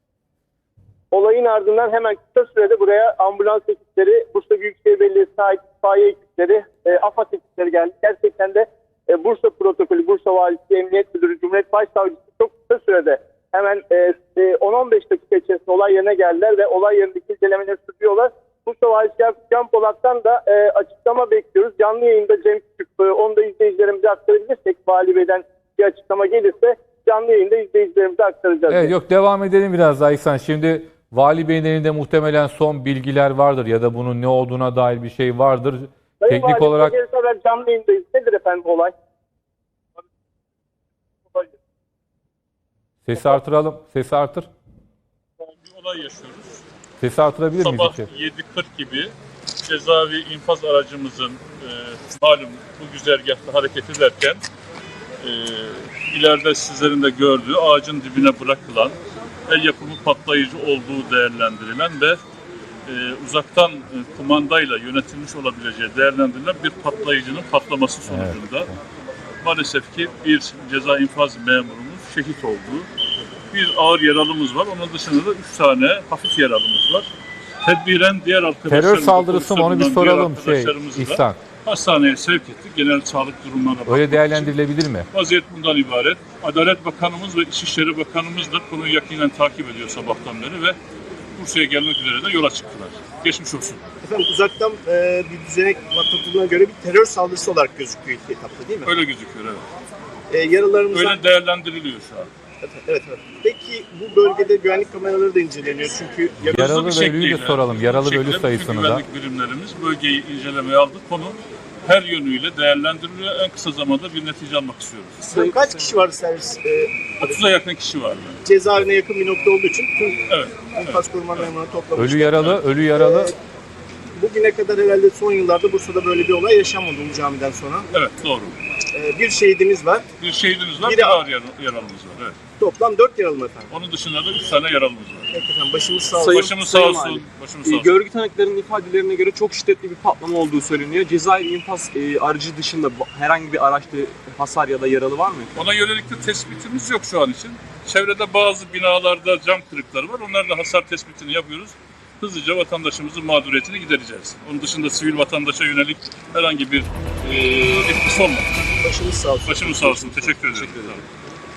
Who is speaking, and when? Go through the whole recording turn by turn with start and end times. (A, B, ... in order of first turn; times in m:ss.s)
0:01.1-0:28.9 A
0:28.7-0:36.9 B
0:36.2-0:38.9 A
0:43.0-0:44.5 B
0:45.4-0:46.6 C
0:47.0-0:48.1 B
0:47.6-0:54.4 C
0:55.2-0:59.0 C
0:59.5-1:02.2 C
1:02.9-1:08.7 C
1:08.1-1:08.4 B
1:09.4-1:12.9 C
1:13.5-1:17.1 C
1:17.6-1:24.6 C
1:18.7-1:21.4 B
1:23.9-1:25.1 B
1:25.1-1:30.8 C
1:31.3-1:33.8 C
1:34.0-1:38.9 D
1:38.8-1:39.6 C
1:40.3-1:41.2 D
1:40.9-1:42.3 C
1:42.6-1:46.6 D
1:46.4-1:55.4 C
1:46.5-1:49.0 B
1:55.2-1:57.4 D
1:55.4-1:55.9 E
1:57.2-1:58.4 C
1:58.4-2:03.4 D
2:00.3-2:01.0 C
2:02.0-2:03.3 B
2:04.1-2:07.9 D
2:07.9-2:08.6 C
2:08.9-2:10.0 D
2:10.2-2:12.4 C
2:10.8-2:11.2 D
2:12.6-2:13.7 D
2:13.7-2:15.3 C
2:15.3-2:16.6 D
2:16.1-2:25.5 E
2:16.3-2:18.0 C
2:25.5-2:38.5 C
2:38.8-2:40.1 D
2:39.4-2:41.0 C
2:40.2-2:41.0 E